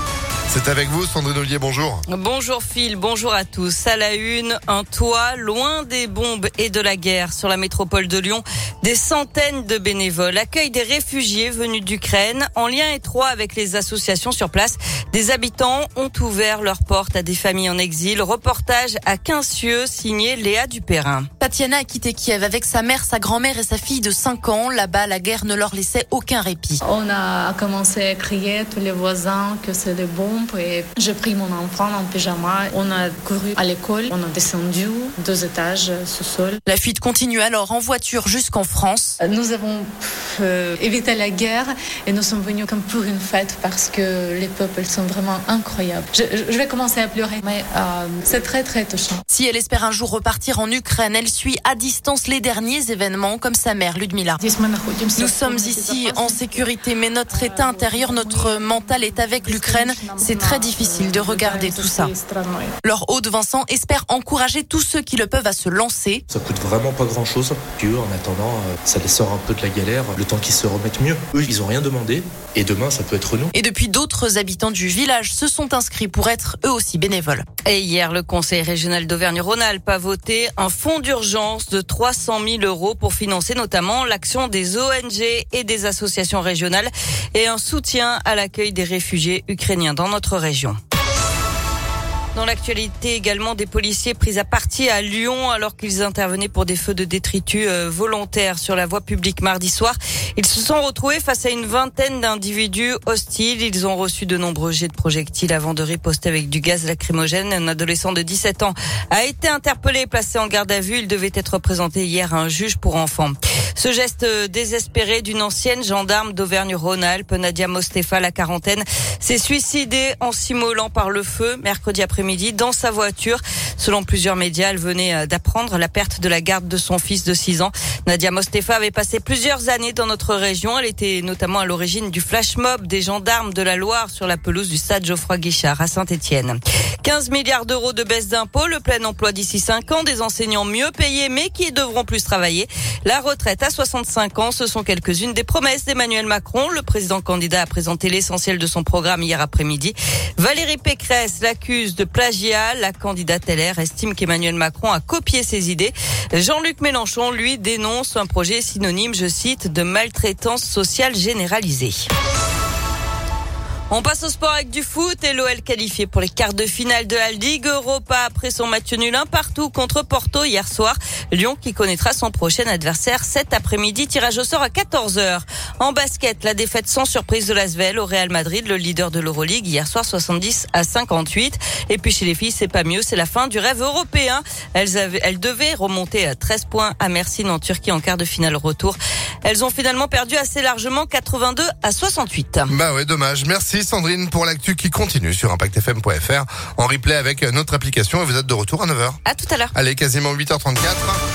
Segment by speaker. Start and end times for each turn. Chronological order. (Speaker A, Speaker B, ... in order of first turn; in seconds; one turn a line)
Speaker A: 0.5-2.0
Speaker B: 2.1-21.3
Speaker C: 21.4-26.8
Speaker D: 26.8-36.6
Speaker C: 36.6-39.2
Speaker D: 39.2-49.2
Speaker C: 49.3-54.4
Speaker D: 54.4-56.7
Speaker C: 55.1-62.1
Speaker D: 57.3-62.7
Speaker C: 62.8-66.2
Speaker E: 66.3-73.5
Speaker C: 73.5-77.4
Speaker B: 77.7-90.8
Speaker B: 92.3-162.1
Speaker B: 163.9-192.7
Speaker A: 192.7-199.2
Speaker B: 199.2-199.7
Speaker A: 199.7-201.2